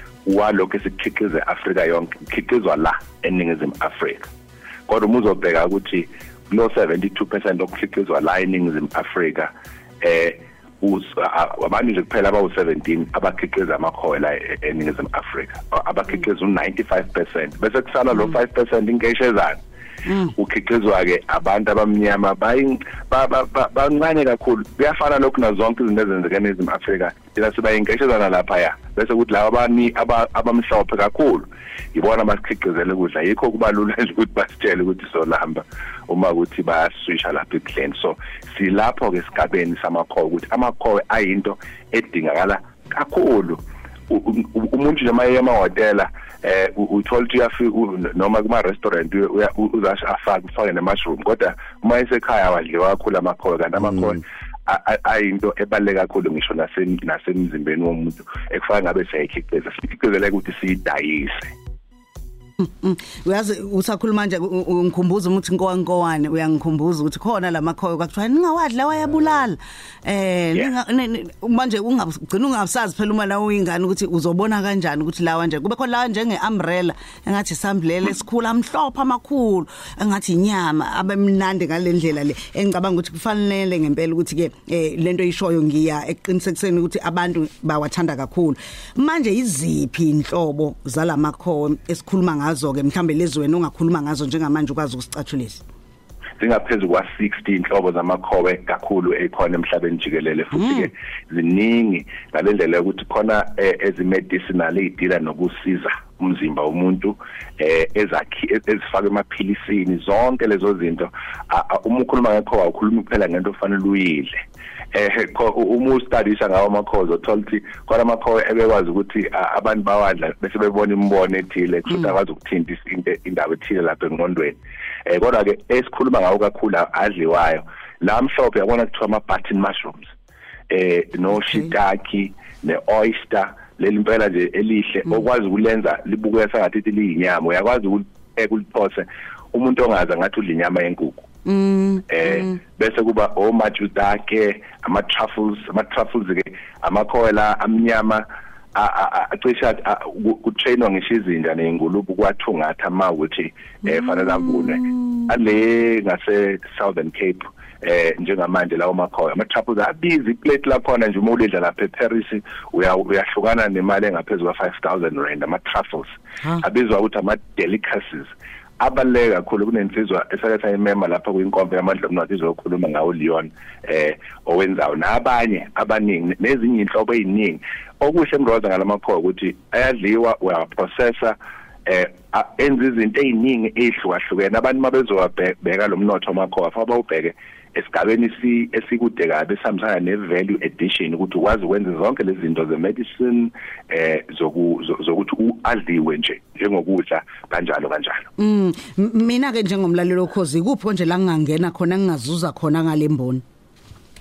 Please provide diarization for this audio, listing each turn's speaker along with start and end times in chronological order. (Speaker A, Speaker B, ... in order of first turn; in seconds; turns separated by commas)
Speaker A: 0.2-4.3, Speaker A: 4.9-19.6, Speaker B: 20.1-20.3, Speaker A: 20.4-61.5, Speaker B: 62.6-95.6, Speaker A: 96.4-114.4, Speaker B: 100.5-100.9, Speaker A: 114.9-130.1, Speaker A: 130.7-141.3, Speaker B: 131.3-131.7, Speaker B: 141.4-142.6, Speaker A: 142.1-198.3, Speaker B: 154.6-155.3, Speaker B: 198.4-203.4